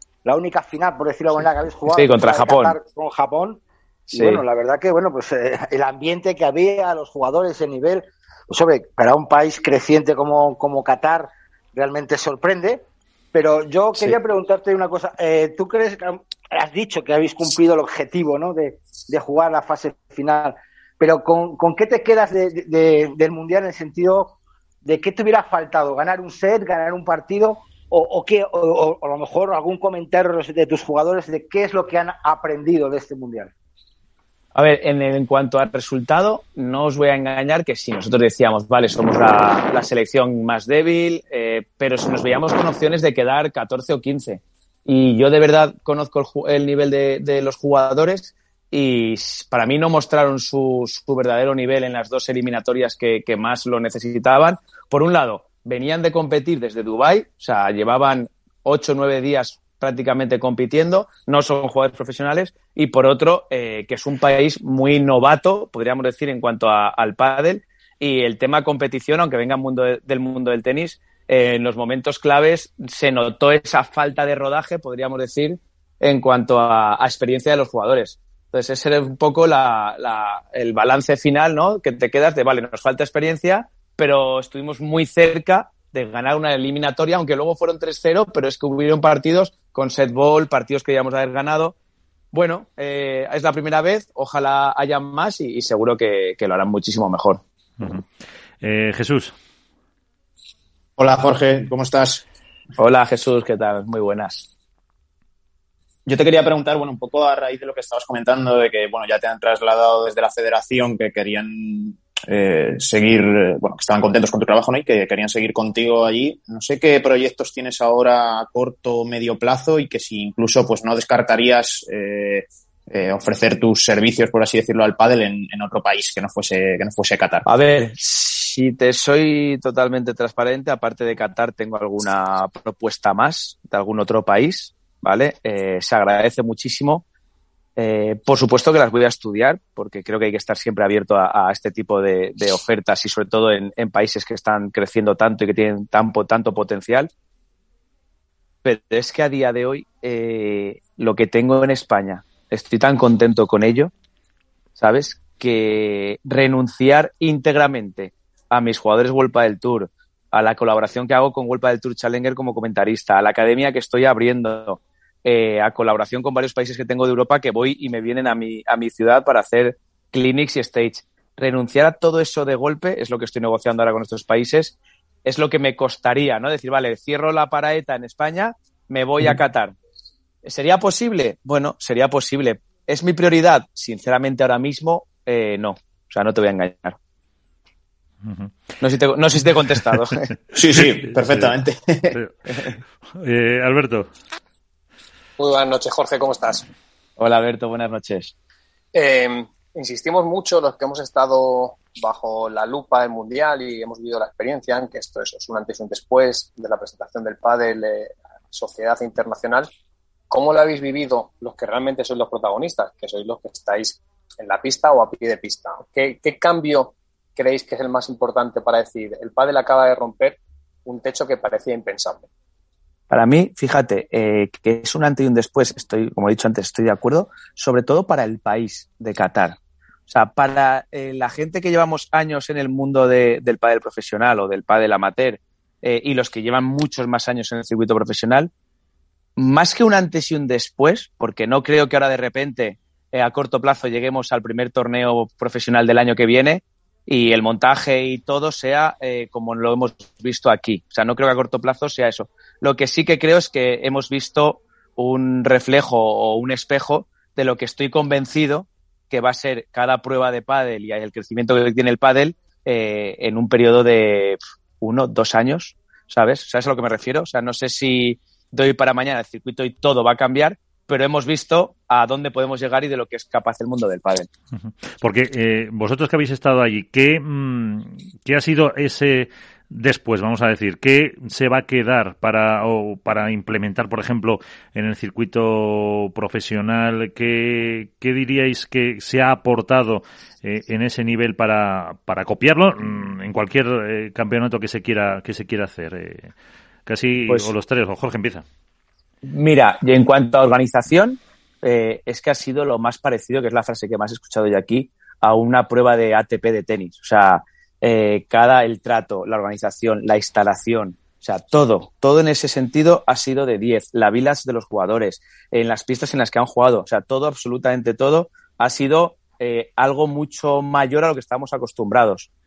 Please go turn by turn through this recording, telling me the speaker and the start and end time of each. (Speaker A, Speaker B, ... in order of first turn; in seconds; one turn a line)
Speaker A: 0.2-33.5
Speaker B: 1.9-2.8
Speaker B: 4.1-4.4
Speaker B: 34.5-91.8
Speaker B: 92.3-97.4
Speaker C: 98.6-99.3
Speaker D: 101.0-102.2
Speaker B: 102.8-104.5
Speaker D: 106.1-127.5
Speaker B: 127.5-137.0
Speaker B: 137.8-147.1
Speaker B: 148.6-153.9
Speaker B: 154.8-179.8
Speaker B: 180.4-187.0
Speaker C: 188.2-188.5
Speaker B: 188.8-190.3
Speaker D: 190.5-192.2
Speaker C: 193.2-194.1
Speaker E: 195.4-196.7
Speaker B: 197.2-198.3
Speaker E: 198.9-209.7
Speaker E: 210.3-222.3
Speaker B: 223.1-229.6
Speaker B: 230.1-238.5
Speaker B: 239.4-274.3
Speaker C: 274.6-296.3
Speaker C: 296.9-298.4
Speaker B: 297.3-297.5
Speaker B: 299.3-322.3